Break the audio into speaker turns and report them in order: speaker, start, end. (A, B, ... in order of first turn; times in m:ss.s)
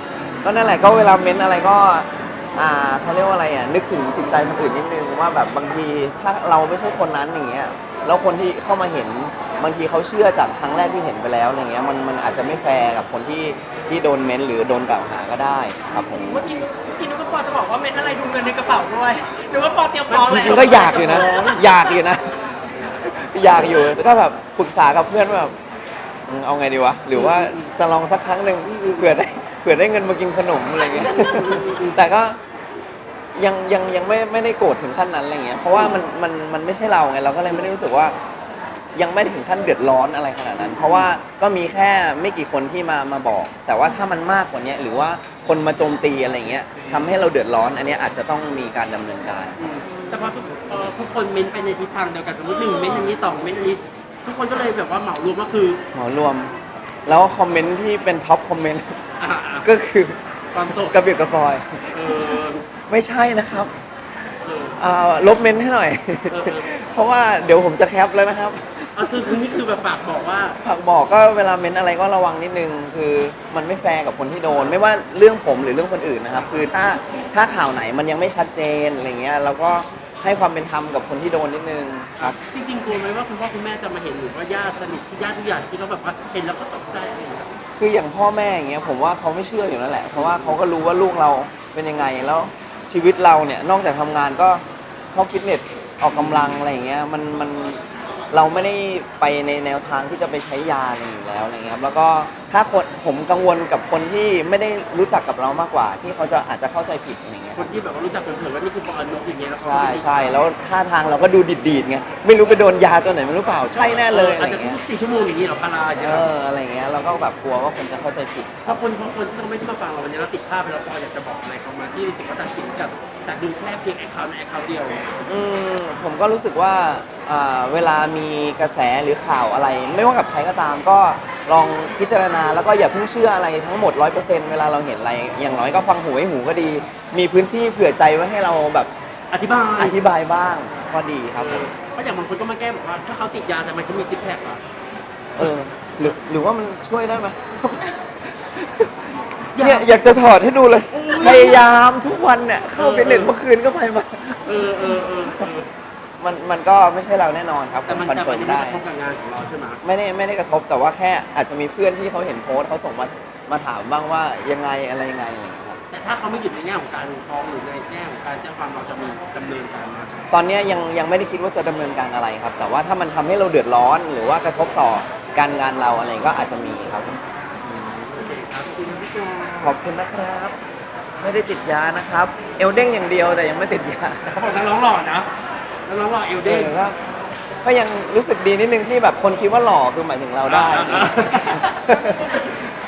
0:00.4-0:16.5 A
0:16.2-0:22.0 B
0:20.1-0:21.7 C
0:20.2-0:25.6 A
0:26.3-0:32.4 A
0:27.1-0:27.7 C
0:28.6-0:29.2 C
0:30.9-0:32.0 C
0:33.4-0:38.2 A
0:39.0-0:49.6 A
0:40.6-0:41.1 C
0:49.6-0:55.8 C
0:55.9-0:56.5 A
0:57.1-0:59.0 A
0:59.2-0:59.7 C
0:59.6-1:03.7 A
1:00.5-1:01.0 C
1:01.9-1:02.6 C
1:04.4-1:04.8 C
1:04.8-1:09.4 A
1:06.3-1:06.7 C
1:09.0-1:10.6 C
1:10.6-1:22.4 A
1:14.5-1:14.8 C
1:22.2-1:27.5 C
1:27.8-1:47.7 A
1:30.1-1:30.6 C
1:36.1-1:36.6 C
1:47.6-1:50.4 C
1:49.6-1:54.8 A
1:53.7-1:56.3 C
1:56.0-1:58.8 A
1:58.6-2:05.1 C
2:05.3-2:18.9 A
2:19.3-2:20.0 C
2:19.8-2:21.7 A
2:21.4-2:24.6 C
2:25.4-2:29.0 A
2:29.5-2:30.2 C
2:29.6-2:35.5 A
2:30.9-2:31.7 C
2:32.8-2:33.4 C
2:34.4-2:35.7 C
2:36.2-2:38.8 A
2:37.9-2:39.8 C
2:39.8-2:45.8 A
2:45.9-2:50.2 C
2:50.3-2:57.2 A
2:57.6-2:59.8 C
2:59.6-3:00.6 A
3:01.2-3:04.4 A
3:04.3-3:05.3 C
3:05.9-3:06.8 C
3:06.4-3:07.0 A
3:07.6-3:12.5 A
3:10.4-3:12.5 C